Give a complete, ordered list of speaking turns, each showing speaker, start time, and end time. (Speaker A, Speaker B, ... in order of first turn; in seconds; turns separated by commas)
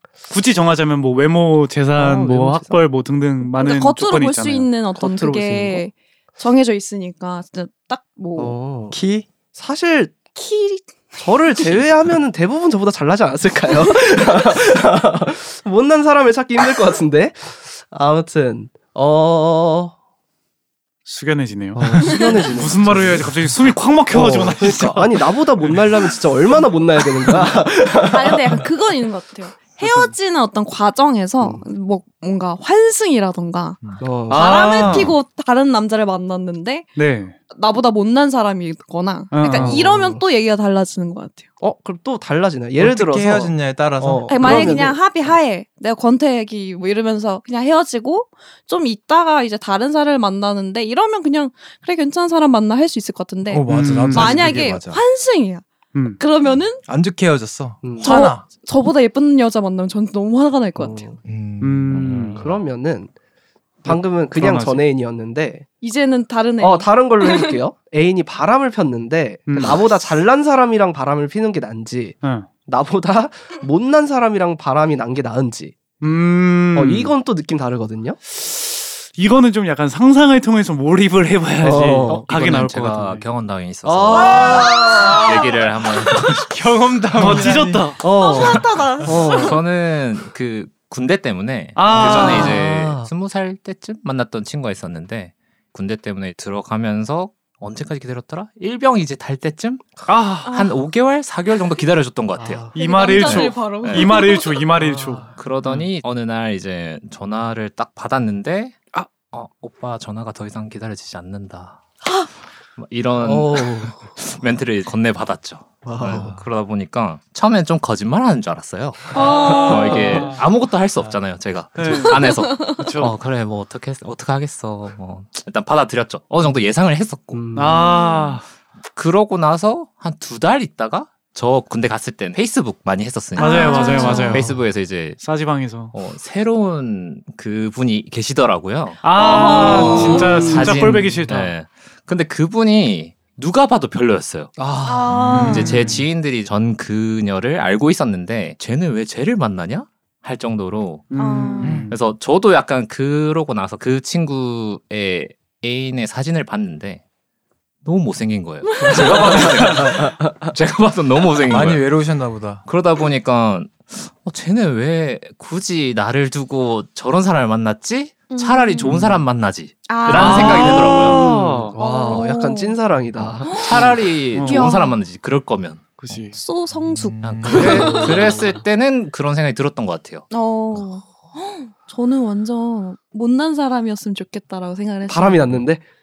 Speaker A: 0.3-4.7, Speaker B: 2.0-2.8, Speaker C: 3.5-8.6, Speaker B: 5.0-5.8, Speaker B: 8.4-9.0, Speaker D: 8.9-9.3, Speaker B: 9.5-10.4, Speaker C: 10.3-11.2, Speaker B: 11.2-19.9, Speaker A: 21.1-26.1, Speaker B: 21.7-23.4, Speaker B: 24.1-28.6, Speaker D: 24.6-25.0, Speaker C: 28.0-36.9, Speaker A: 29.8-30.1, Speaker B: 34.0-35.0, Speaker A: 34.3-35.1, Speaker A: 36.9-37.4, Speaker C: 37.5-41.4, Speaker A: 39.3-39.9, Speaker B: 39.5-40.2, Speaker B: 41.6-45.0, Speaker D: 42.8-44.8, Speaker C: 44.3-55.6, Speaker D: 53.5-55.0, Speaker A: 53.7-54.5, Speaker A: 55.9-56.2, Speaker C: 56.2-56.8, Speaker D: 56.9-58.4, Speaker B: 57.8-58.3, Speaker C: 58.0-61.0, Speaker B: 60.8-61.2, Speaker D: 61.2-62.4, Speaker A: 61.6-62.4, Speaker B: 62.4-63.1, Speaker A: 63.8-64.8, Speaker B: 63.8-65.7, Speaker C: 65.8-67.5, Speaker B: 66.6-75.8, Speaker A: 69.5-69.9, Speaker A: 72.2-72.5, Speaker A: 76.0-77.1, Speaker B: 76.7-78.2, Speaker A: 78.3-83.2, Speaker B: 81.6-82.3, Speaker E: 82.0-86.3, Speaker B: 83.8-85.4, Speaker C: 84.1-85.6, Speaker D: 86.1-87.9, Speaker A: 87.2-88.0, Speaker B: 88.0-89.6, Speaker C: 88.0-89.6, Speaker E: 89.2-104.1, Speaker A: 91.7-92.6, Speaker B: 91.9-93.1, Speaker A: 100.1-100.5, Speaker C: 100.4-100.8, Speaker B: 102.4-102.8, Speaker A: 102.7-105.8, Speaker C: 102.8-104.6, Speaker B: 104.8-105.3, Speaker E: 105.4-111.8, Speaker C: 112.0-112.3, Speaker E: 112.8-127.4, Speaker B: 113.2-114.2, Speaker B: 115.8-116.4, Speaker C: 119.1-120.1, Speaker A: 119.2-120.4, Speaker B: 119.2-120.3, Speaker A: 121.7-123.2, Speaker C: 122.1-122.8, Speaker B: 127.3-128.0, Speaker A: 127.5-128.4, Speaker C: 127.8-128.4, Speaker E: 128.9-135.2, Speaker C: 133.3-134.5, Speaker A: 133.4-134.6, Speaker A: 135.2-135.9, Speaker E: 135.9-144.5, Speaker A: 139.0-141.5, Speaker C: 139.2-140.7, Speaker B: 139.7-140.9, Speaker B: 144.6-145.1, Speaker C: 144.8-145.8, Speaker D: 145.0-146.0, Speaker A: 145.3-146.0, Speaker E: 145.3-151.1, Speaker A: 151.1-152.0, Speaker C: 151.2-151.8, Speaker D: 151.6-151.9, Speaker E: 151.9-157.0, Speaker E: 157.8-161.9, Speaker C: 158.7-159.0, Speaker A: 158.9-159.9, Speaker B: 158.9-160.5, Speaker D: 161.5-162.6, Speaker E: 162.6-171.2, Speaker C: 168.3-168.9, Speaker C: 169.9-171.2, Speaker A: 170.1-172.2, Speaker B: 171.1-173.9, Speaker C: 171.8-172.8, Speaker C: 173.4-173.9, Speaker E: 173.4-176.0, Speaker A: 174.3-174.7, Speaker C: 174.4-175.0, Speaker A: 176.0-176.3, Speaker C: 176.3-178.4, Speaker D: 176.7-178.3, Speaker E: 177.2-180.3, Speaker B: 177.9-178.4, Speaker C: 180.3-185.6, Speaker B: 185.1-185.8